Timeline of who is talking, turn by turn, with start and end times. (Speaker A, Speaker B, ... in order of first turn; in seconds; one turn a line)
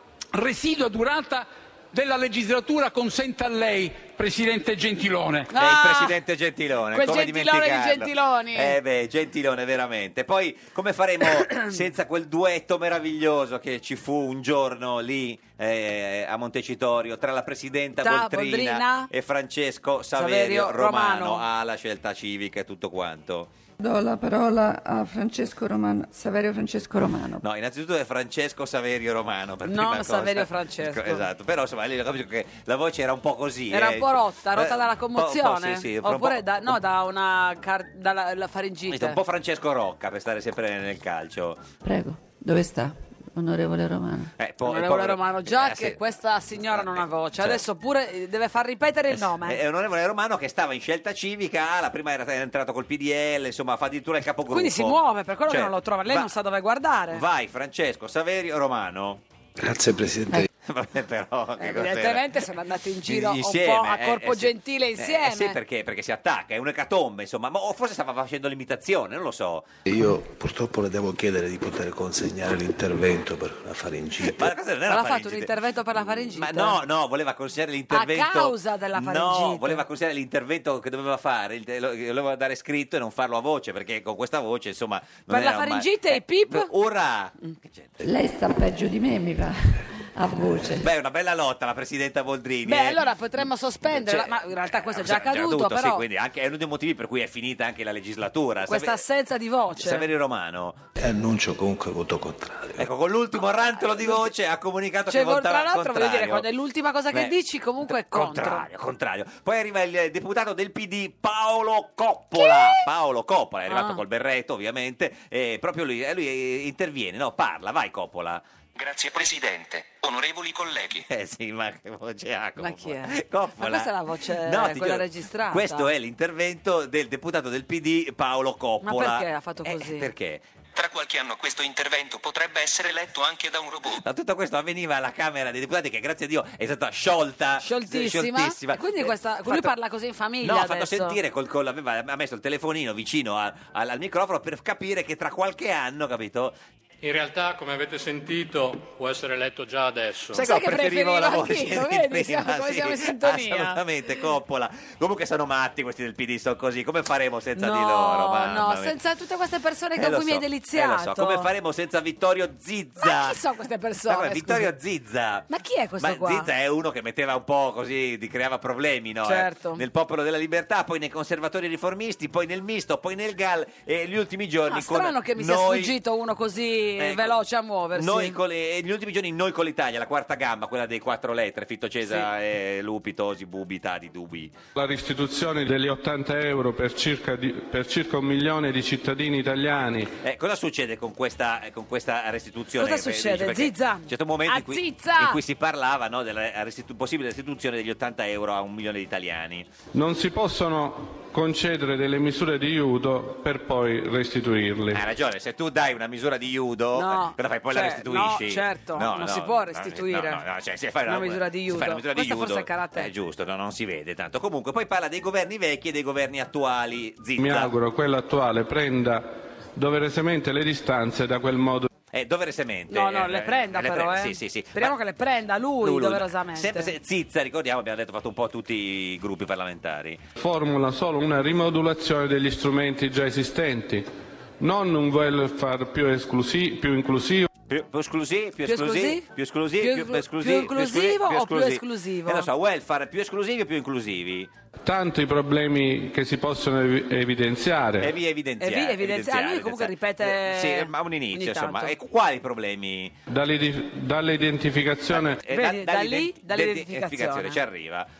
Speaker A: 0.3-5.5
Speaker B: 5.5-6.2
Speaker C: 5.5-23.5
Speaker B: 6.9-8.8
Speaker B: 11.2-11.7
Speaker B: 18.0-19.1
Speaker B: 20.1-21.4
Speaker D: 23.8-27.4
Speaker C: 27.4-36.8
Speaker B: 29.6-31.3
Speaker B: 33.7-39.2
Speaker C: 38.9-41.6
Speaker D: 41.8-44.3
Speaker C: 44.4-46.0
Speaker B: 44.6-49.6
Speaker C: 46.7-47.6
Speaker C: 49.1-56.3
Speaker B: 54.5-57.2
Speaker C: 57.1-59.2
Speaker E: 59.6-60.5
Speaker C: 60.6-62.4
Speaker B: 61.6-65.5
Speaker C: 63.0-69.6
Speaker E: 69.8-74.4
Speaker C: 74.2-87.9
Speaker B: 74.8-76.8
Speaker B: 77.9-79.8
Speaker B: 85.3-86.7
Speaker D: 88.0-90.9
Speaker C: 90.8-93.0
Speaker B: 92.7-96.0
Speaker C: 93.8-99.0
Speaker B: 98.7-100.1
Speaker C: 99.8-100.8
Speaker E: 101.0-102.9
Speaker C: 102.8-106.5
Speaker B: 103.8-104.3
Speaker B: 105.1-108.6
Speaker C: 107.8-118.4
Speaker B: 112.3-112.8
Speaker B: 113.7-114.0
Speaker F: 118.8-121.0
Speaker C: 121.1-130.4
Speaker B: 122.6-125.9
Speaker B: 128.8-130.1
Speaker F: 130.7-134.0
Speaker C: 134.0-139.7
Speaker B: 137.6-141.2
Speaker C: 140.4-146.5
Speaker G: 147.0-150.4
Speaker C: 150.3-158.9
Speaker B: 150.3-153.8
Speaker B: 157.6-161.5
Speaker C: 160.0-163.4
Speaker B: 163.0-164.7
Speaker C: 164.0-165.5
Speaker B: 165.5-166.5
Speaker C: 166.0-175.9
Speaker B: 169.2-169.8
Speaker B: 174.7-178.4
Speaker C: 177.0-177.4
Speaker C: 177.9-184.5
Speaker H: 184.7-190.1
Speaker C: 190.2-199.7
Speaker B: 192.8-195.4
Speaker H: 199.9-205.0
Speaker C: 204.9-217.7
Speaker B: 206.9-210.4
Speaker B: 211.1-213.1
Speaker H: 217.4-221.8
Speaker C: 222.1-224.9
Speaker B: 222.9-226.9
Speaker C: 225.8-230.2
Speaker H: 230.4-234.1
Speaker H: 234.6-237.5
Speaker C: 237.7-244.5
Speaker B: 238.6-239.2
Speaker B: 239.8-242.5
Speaker H: 244.8-248.1
Speaker C: 248.0-253.2
Speaker B: 248.6-251.9
Speaker H: 253.3-255.4
Speaker C: 255.1-258.1
Speaker B: 255.5-257.6